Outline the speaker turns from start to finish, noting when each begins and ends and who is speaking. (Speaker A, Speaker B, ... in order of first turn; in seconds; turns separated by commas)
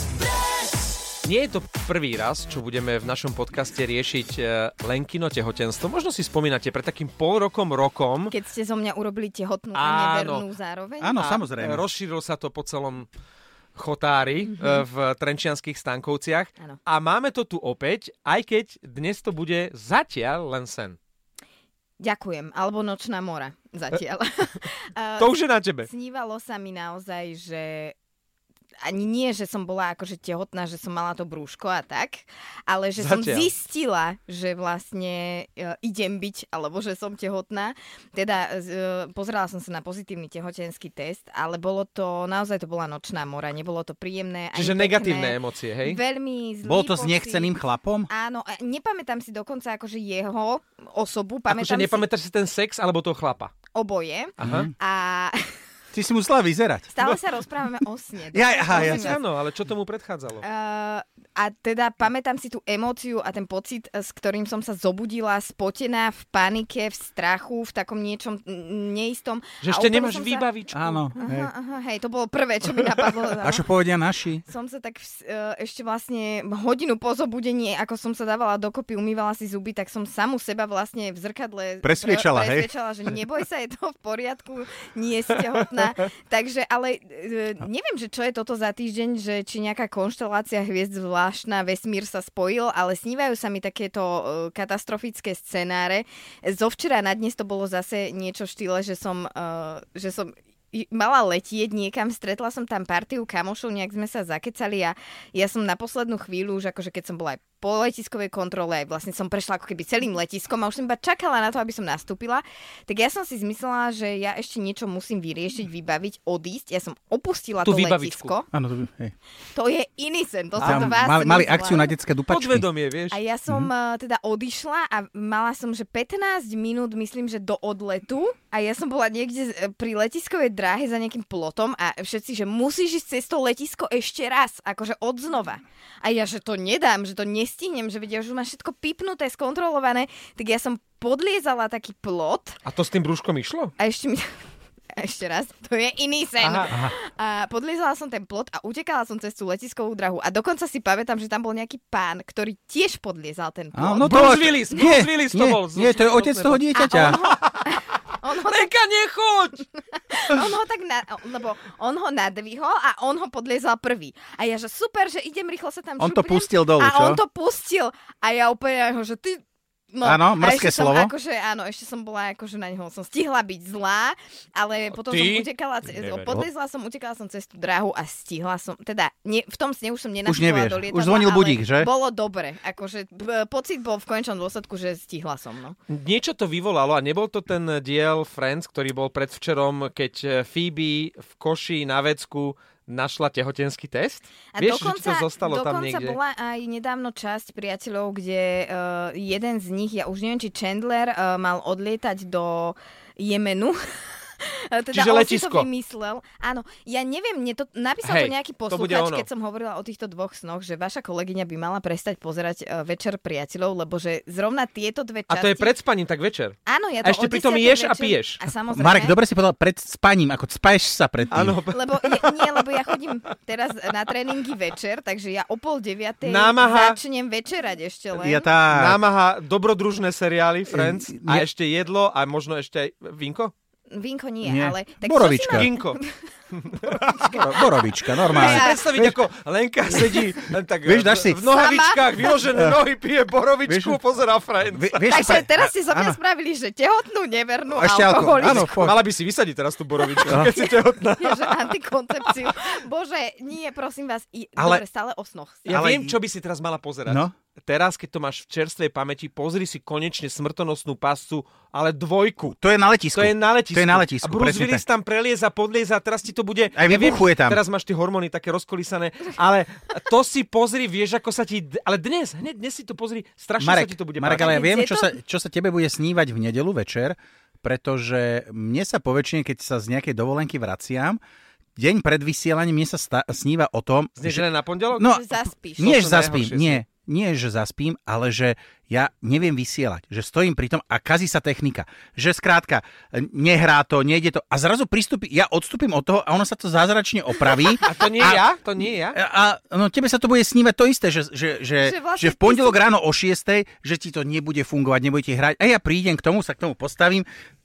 Speaker A: 1.2-8.3, Speaker B: 8.3-11.2, Speaker A: 9.7-10.4, Speaker C: 11.0-11.8, Speaker A: 11.2-13.1, Speaker A: 13.8-21.0, Speaker B: 14.6-14.8, Speaker B: 22.0-27.9, Speaker A: 25.2-25.9, Speaker B: 28.8-52.0, Speaker A: 33.0-33.5, Speaker A: 44.5-46.0, Speaker C: 46.6-48.1, Speaker A: 51.5-53.5, Speaker B: 53.7-55.5, Speaker A: 54.4-54.7, Speaker C: 54.4-54.7, Speaker C: 55.9-56.9, Speaker B: 56.9-59.2, Speaker C: 58.3-59.2, Speaker A: 58.7-60.4, Speaker B: 60.4-70.5, Speaker A: 69.6-71.1, Speaker C: 70.7-71.5, Speaker B: 71.1-73.7, Speaker C: 72.8-74.4, Speaker B: 74.4-118.5, Speaker C: 81.8-82.7, Speaker A: 117.6-118.3, Speaker C: 118.5-119.1, Speaker B: 119.5-121.9, Speaker A: 120.6-121.0, Speaker C: 120.6-122.7, Speaker A: 122.3-123.2, Speaker B: 123.1-142.6, Speaker A: 142.6-143.7, Speaker B: 143.8-144.3, Speaker B: 144.9-154.3, Speaker A: 146.4-146.7, Speaker C: 153.7-157.2, Speaker A: 154.0-157.6, Speaker B: 156.7-158.7, Speaker A: 158.3-159.6, Speaker B: 159.7-185.8, Speaker C: 166.0-167.2, Speaker C: 170.0-171.1, Speaker A: 174.9-176.4, Speaker C: 180.2-181.9, Speaker A: 185.9-196.2, Speaker B: 194.5-203.8, Speaker B: 204.4-215.8, Speaker A: 204.9-205.7, Speaker A: 208.0-209.3, Speaker A: 215.3-218.4, Speaker B: 216.6-219.2, Speaker C: 218.7-221.6, Speaker A: 221.3-222.7, Speaker B: 221.7-228.5, Speaker A: 226.2-227.0, Speaker C: 228.1-229.0, Speaker A: 228.7-233.5, Speaker C: 230.7-231.4, Speaker B: 233.9-236.3, Speaker C: 234.4-235.7, Speaker A: 235.5-236.0, Speaker A: 236.5-237.4, Speaker B: 236.9-237.4, Speaker C: 237.1-239.2, Speaker A: 238.3-245.3, Speaker B: 238.3-238.9, Speaker C: 239.9-241.5, Speaker B: 241.5-242.3, Speaker C: 243.7-244.0, Speaker C: 244.7-246.2, Speaker B: 245.1-248.8, Speaker C: 247.7-249.0, Speaker A: 248.4-251.7, Speaker B: 250.0-255.7, Speaker C: 254.6-254.8, Speaker A: 255.6-262.6, Speaker C: 255.7-256.1, Speaker C: 257.1-257.3, Speaker C: 262.6-264.8, Speaker A: 263.1-274.6, Speaker C: 266.7-267.6, Speaker C: 273.6-281.2, Speaker B: 274.4-275.1, Speaker C: 281.8-298.4, Speaker A: 284.2-285.2, Speaker B: 285.0-286.0, Speaker A: 285.7-286.8, Speaker B: 297.5-298.1, Speaker A: 297.8-299.2, Speaker C: 299.1-307.3, Speaker B: 301.8-302.8